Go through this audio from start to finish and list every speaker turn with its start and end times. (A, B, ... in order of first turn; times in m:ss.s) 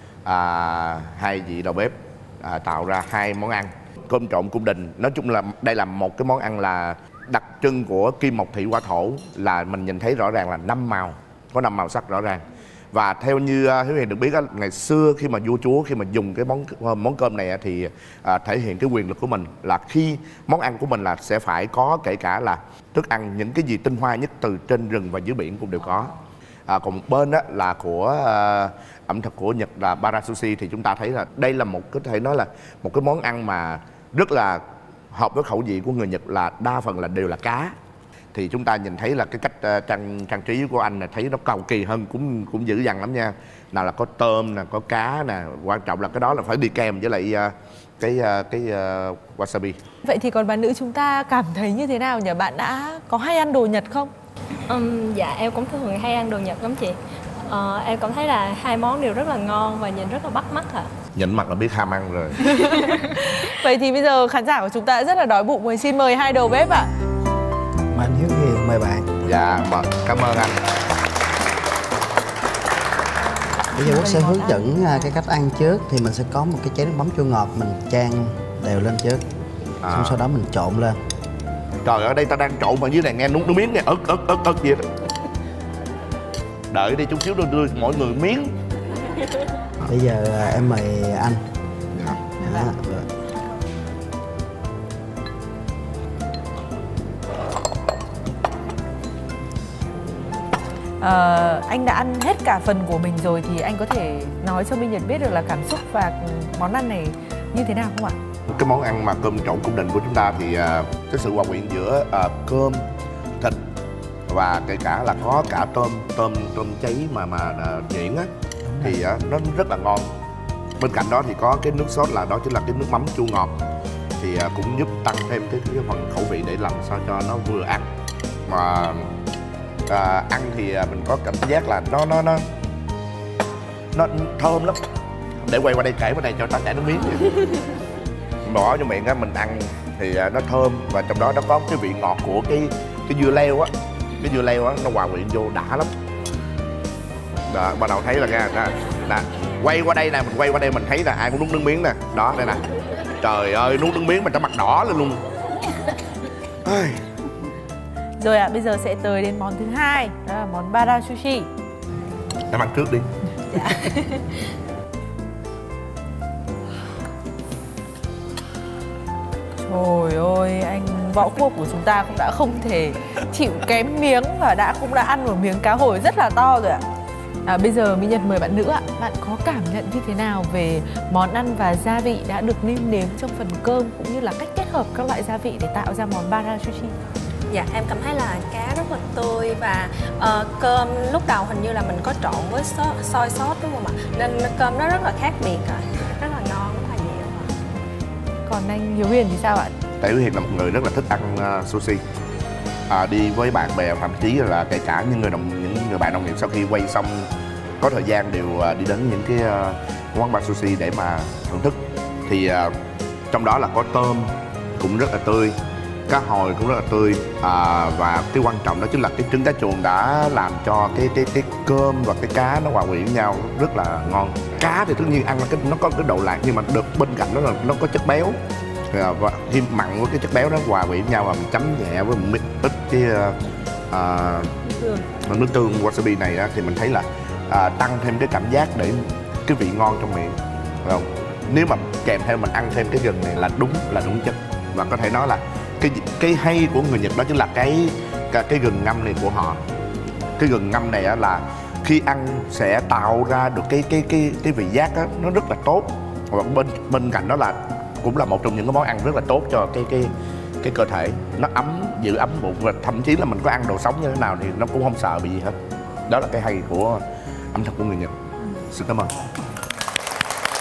0:00.2-0:26.1 A
0:26.7-0:37.8 A
0:38.3-0:49.8 A
0:50.0-0:54.1 B
0:54.7-1:00.9 C
1:01.2-1:02.4 A
1:02.6-1:06.9 B
1:07.9-1:09.2 D
1:09.2-1:10.6 A
1:13.7-1:15.1 B
1:13.7-1:19.2 D
1:19.8-1:20.2 A
1:19.9-1:21.0 D
1:21.8-1:24.8 A
1:26.7-1:28.6 A
1:29.8-1:31.4 D
1:31.9-1:32.2 A
1:32.4-1:32.7 B
1:32.4-1:33.1 D
1:41.0-1:48.2 B
1:48.5-1:52.8 A
1:54.3-2:00.1 A
2:00.8-2:03.6 A
2:04.2-2:07.8 A
2:08.5-2:09.1 A
2:09.9-2:12.4 A
2:13.9-2:14.8 A
2:15.4-2:17.3 A
2:18.4-2:25.9 A
2:27.5-2:32.6 A
2:33.2-2:35.2 A
2:36.6-2:37.0 A
2:38.2-2:41.5 B
2:42.5-2:43.1 A
2:49.6-2:56.8 B
2:57.4-3:06.9 B
3:07.5-3:17.5 C
3:18.4-3:19.7 B
3:20.0-3:22.0 A
3:22.9-3:27.3 A
3:27.8-3:32.7 A
3:33.3-3:35.6 A
3:36.1-3:48.4 A
3:48.9-3:53.4 A
3:53.9-4:09.7 A
4:10.4-4:29.2 A